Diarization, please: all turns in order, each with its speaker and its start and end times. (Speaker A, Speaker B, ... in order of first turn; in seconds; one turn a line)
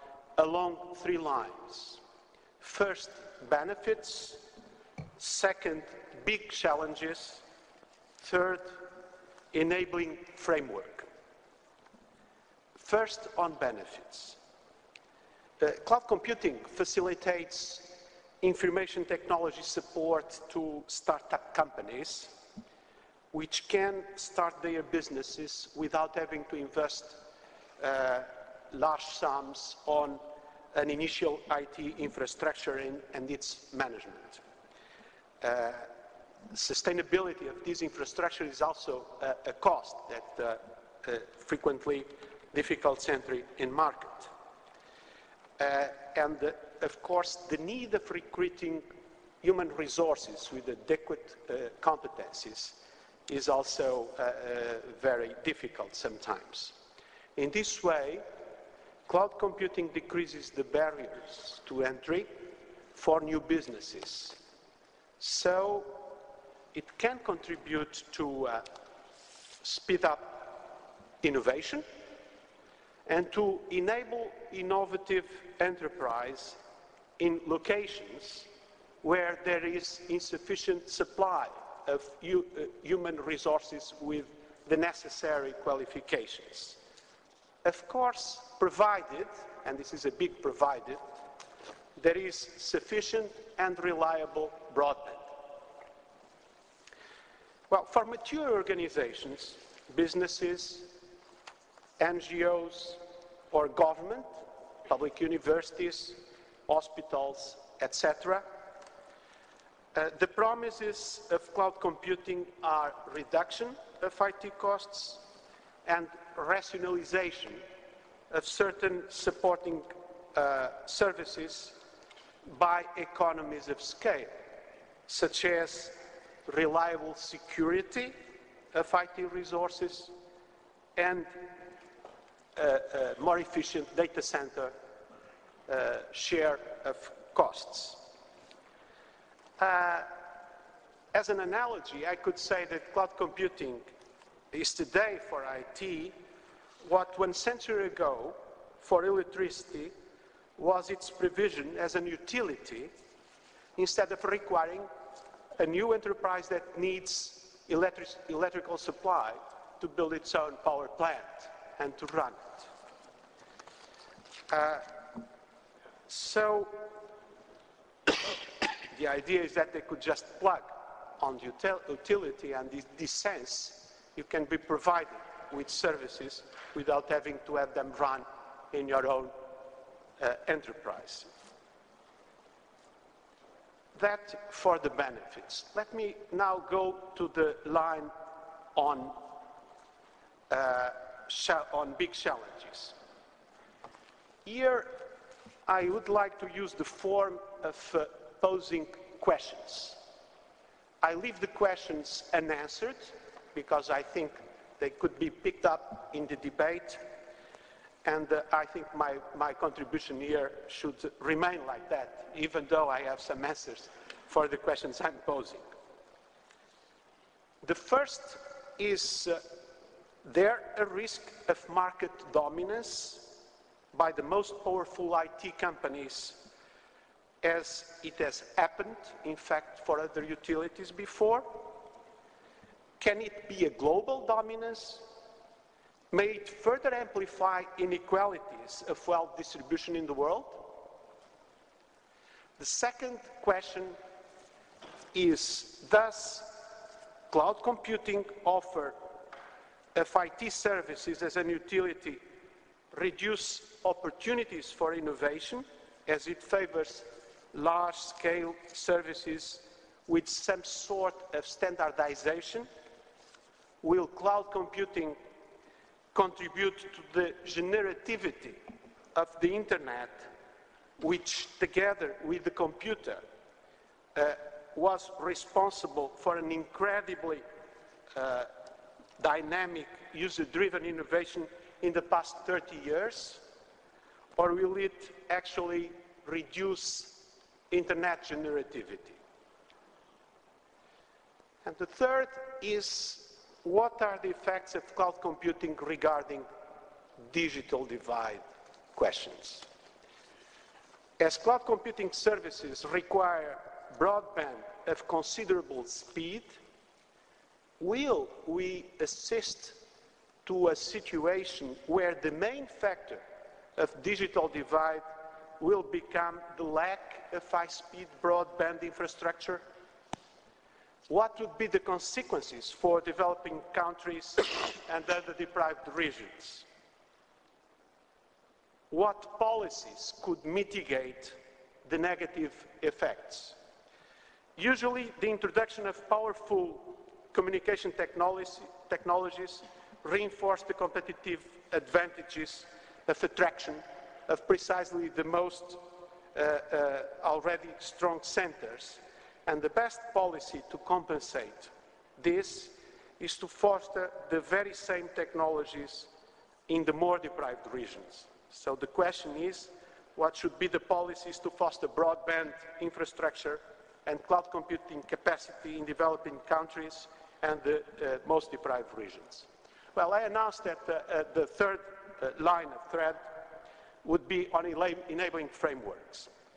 Speaker A: 0.4-2.0
Speaker A: 2.6-4.5
Speaker A: 5.2-7.4
Speaker A: 8.2-8.9
Speaker A: 9.5-11.1
Speaker A: 12.8-14.4
Speaker A: 15.6-22.4
Speaker A: 23.3-27.2
Speaker A: 27.8-30.2
Speaker A: 30.7-34.4
Speaker A: 35.4-35.9
Speaker A: 36.5-44.3
Speaker A: 45.6-48.9
Speaker A: 49.4-56.8
Speaker A: 57.4-58.2
Speaker A: 59.1-62.3
Speaker A: 62.9-64.4
Speaker A: 65.2-66.1
Speaker A: 66.7-68.7
Speaker A: 69.6-71.8
Speaker A: 73.1-76.6
Speaker A: 77.2-78.5
Speaker A: 79.0-86.8
Speaker A: 87.6-91.0
Speaker A: 92.0-95.4
Speaker A: 97.7-101.0
Speaker A: 102.0-103.0
Speaker A: 103.5-104.3
Speaker A: 104.8-108.5
Speaker A: 109.9-115.2
Speaker A: 115.8-117.6
Speaker A: 118.3-121.8
Speaker A: 122.5-124.3
Speaker A: 125.1-128.1
Speaker A: 128.7-130.1
Speaker A: 130.9-131.4
Speaker A: 132.6-134.7
Speaker A: 135.7-138.0
Speaker A: 139.6-140.1
Speaker A: 141.1-143.8
Speaker A: 144.5-146.1
Speaker A: 146.8-149.9
Speaker A: 150.6-152.9
Speaker A: 153.8-154.9
Speaker A: 155.6-162.7
Speaker A: 164.5-165.2
Speaker A: 166.1-166.9
Speaker A: 168.1-179.3
Speaker A: 180.2-181.3
Speaker A: 183.9-188.1
Speaker A: 188.7-189.2
Speaker A: 190.5-192.9
Speaker A: 194.4-195.0
Speaker A: 195.7-200.0
Speaker A: 201.0-207.0
Speaker A: 208.0-215.6
Speaker A: 217.6-219.4
Speaker A: 220.2-226.4
Speaker A: 227.4-231.7
Speaker A: 233.0-235.1
Speaker A: 236.1-240.8
Speaker A: 242.6-244.0
Speaker A: 245.1-246.7
Speaker A: 247.3-249.0
Speaker A: 249.9-252.2
Speaker A: 252.9-262.7
Speaker A: 263.8-265.2
Speaker A: 266.1-268.6
Speaker A: 269.1-270.3
Speaker A: 271.0-273.2
Speaker A: 274.1-277.4
Speaker A: 278.1-278.5
Speaker A: 279.2-283.4
Speaker A: 284.4-289.2
Speaker A: 291.6-296.5
Speaker A: 297.2-298.4
Speaker A: 298.9-299.7
Speaker A: 301.2-306.6
Speaker A: 307.8-309.8
Speaker A: 310.4-313.2
Speaker A: 313.8-315.1
Speaker A: 315.6-319.6
Speaker A: 321.1-326.6
Speaker A: 328.9-333.6
Speaker A: 334.6-345.8
Speaker A: 346.3-356.1
Speaker A: 356.7-373.4
Speaker A: 374.0-376.3